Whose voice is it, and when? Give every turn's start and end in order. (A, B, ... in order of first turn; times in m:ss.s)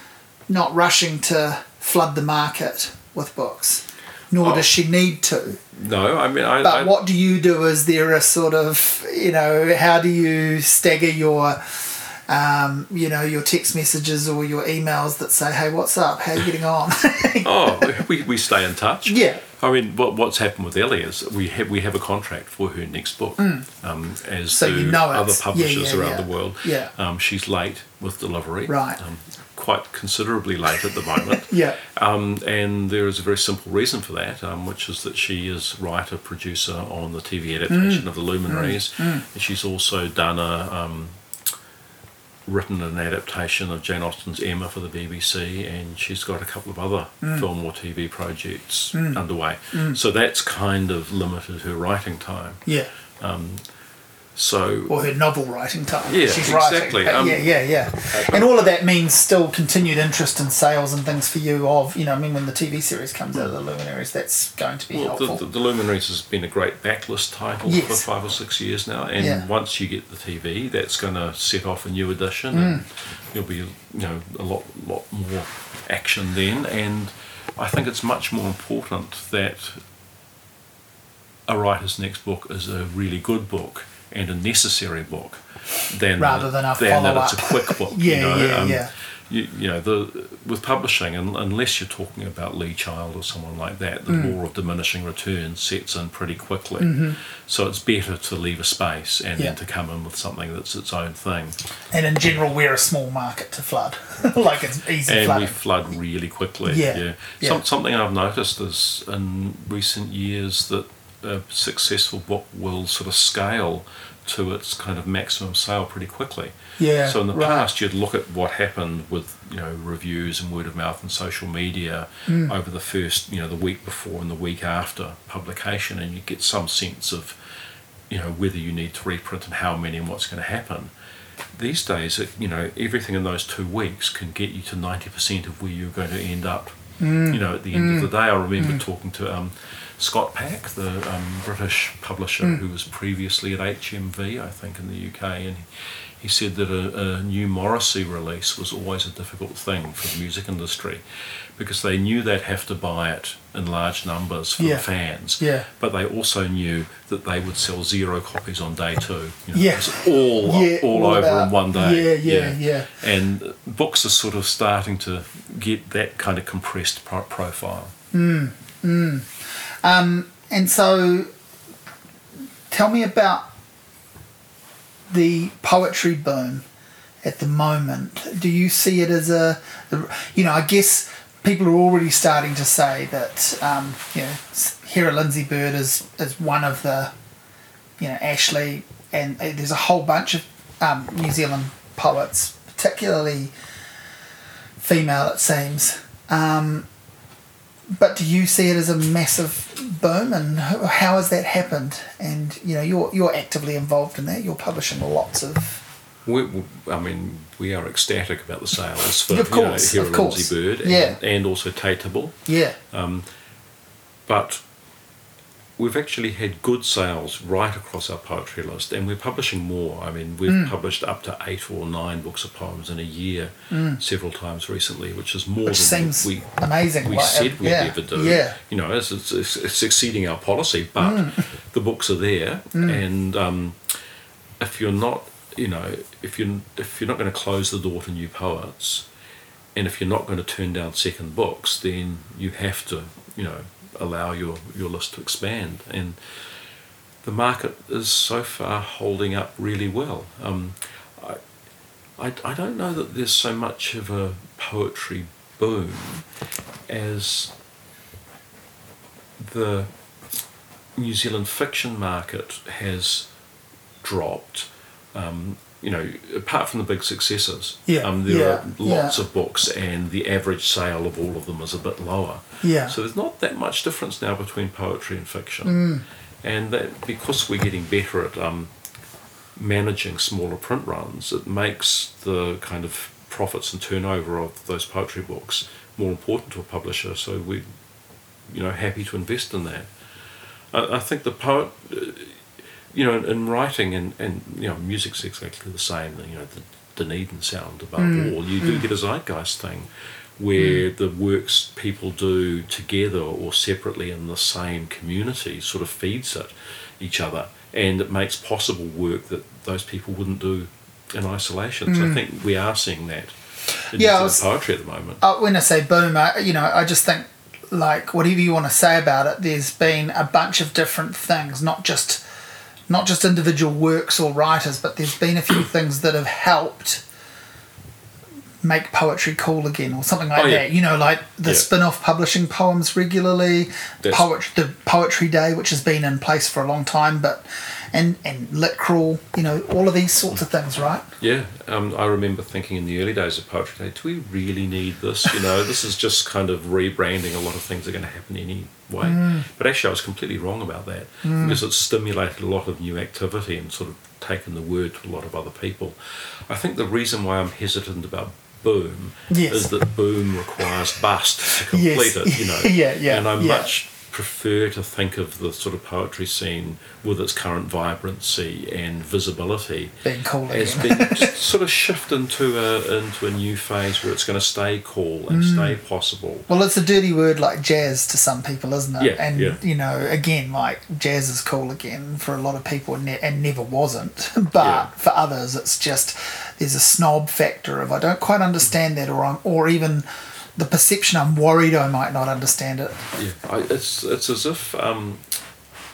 0:00.5-0:05.6 A
0:04.4-0:04.7 B
0:05.7-0:06.9 B
0:06.6-0:18.0 A
0:17.4-0:41.5 B
0:19.1-0:19.4 A
0:23.4-0:23.7 A
0:24.5-0:26.9 A
0:28.7-0:29.0 A
0:31.3-0:31.8 A
0:37.7-0:39.2 A
0:42.5-0:52.6 B
0:47.2-0:47.5 A
0:48.9-0:49.2 A
0:49.7-0:50.0 A
0:53.2-0:53.6 B
0:54.4-0:54.9 B
0:54.9-1:05.4 A
0:56.1-0:57.5 B
0:58.1-0:58.7 B
1:04.9-1:19.8 B
1:07.6-1:08.0 A
1:09.2-1:09.5 A
1:12.5-1:12.8 A
1:21.5-1:41.6 B
1:26.2-1:28.9 A
1:34.1-1:34.4 A
1:36.8-1:37.2 A
1:41.9-1:45.6 A
1:45.0-2:07.4 B
1:46.7-1:47.6 A
1:56.8-1:57.7 A
2:02.3-2:02.5 A
2:08.1-2:10.9 B
2:11.5-2:31.0 B
2:17.0-2:18.8 A
2:31.6-2:47.9 B
2:34.6-2:34.8 A
2:35.4-2:35.7 A
2:39.5-2:42.9 A
2:48.1-2:51.3 A
2:52.7-2:53.5 A
2:55.1-2:56.7 A
2:57.2-3:07.1 A
3:08.0-3:13.5 A
3:14.8-3:16.9 A
3:18.0-3:25.8 A
3:26.2-3:32.4 B
3:29.3-3:31.2 A
3:32.5-3:32.8 A
3:32.9-3:33.3 B
3:34.3-3:34.6 B
3:35.8-3:54.0 B
3:40.5-3:40.7 A
3:43.7-3:44.0 A
3:45.7-3:48.6 A
3:51.0-3:51.5 A
3:52.7-3:53.0 A
3:54.6-3:59.1 B
3:59.8-4:06.2 B
4:07.2-4:11.4 B
4:12.2-4:16.2 B
4:16.9-4:17.5 B
4:19.4-4:19.9 B
4:21.0-4:23.3 B
4:24.0-4:35.8 B
4:27.9-4:29.2 A
4:32.6-4:33.0 A
4:35.6-4:36.0 A
4:36.4-4:38.7 B
4:39.6-4:47.6 B
4:48.5-4:49.9 B
4:50.7-5:13.4 B
4:58.0-4:58.8 A
5:00.6-5:00.8 A
5:11.9-5:12.2 A
5:13.9-5:14.4 A
5:13.9-5:15.2 B
5:15.2-5:22.2 A
5:22.9-5:27.0 A
5:28.6-5:41.0 A
5:30.4-5:30.7 B
5:34.0-5:34.3 B
5:41.2-6:16.5 B
5:49.0-5:49.5 A
5:51.2-5:51.6 A
5:59.3-5:59.7 A
6:01.5-6:03.7 A
6:10.0-6:11.3 A
6:15.3-6:15.8 A
6:16.5-6:33.1 A
6:19.0-6:19.6 B
6:24.6-6:24.9 B
6:33.2-6:35.2 B